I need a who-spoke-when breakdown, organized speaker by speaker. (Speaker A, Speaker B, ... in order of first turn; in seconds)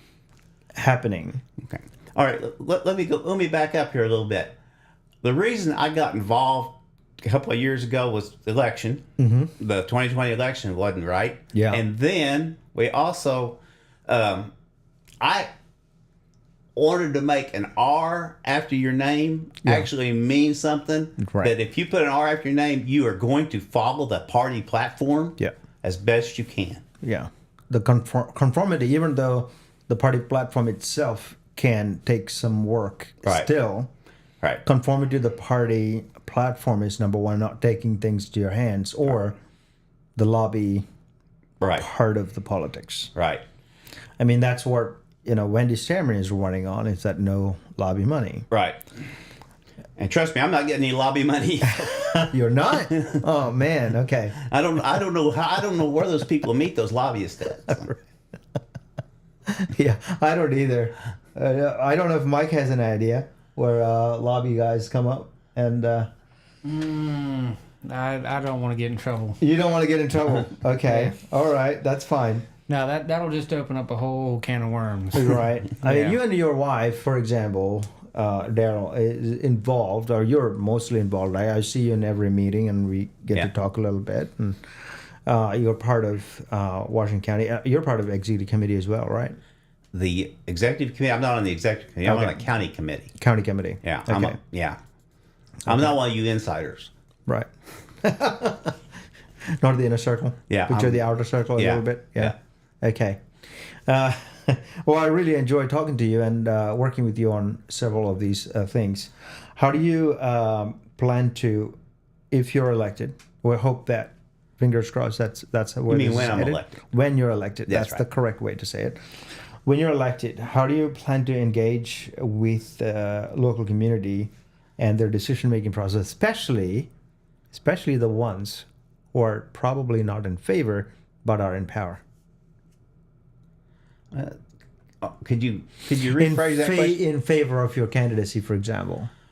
Speaker A: 0.8-1.4, 9.2-9.5, 11.5-11.8, 19.6-19.9, 21.2-21.5, 27.0-33.9, 34.6-39.4, 40.1-40.8, 41.7-43.1, 44.2-48.5, 51.9-54.4, 59.5-66.1, 69.4-72.5, 75.1-84.6, 85.2-89.3, 92.0-92.4, 93.2-94.4, 98.0-98.8, 99.6-103.2, 103.9-111.8, 112.3-119.0, 119.6-126.9, 127.5-132.0, 136.2-139.1
Speaker B: 1.6-4.5, 5.2-9.0, 9.6-14.5, 15.2-15.5, 16.8-26.8, 33.2-33.5, 41.6-41.9, 43.1-43.4, 48.5-48.8, 50.0-52.3, 54.4-58.0, 89.9-93.1, 93.8-94.8, 95.7-96.9, 100.5-101.0, 101.6-102.3, 115.9-116.8, 117.7-118.0, 134.1-134.4, 135.0-137.0
Speaker C: 66.6-69.4, 70.8-71.1, 72.7-76.2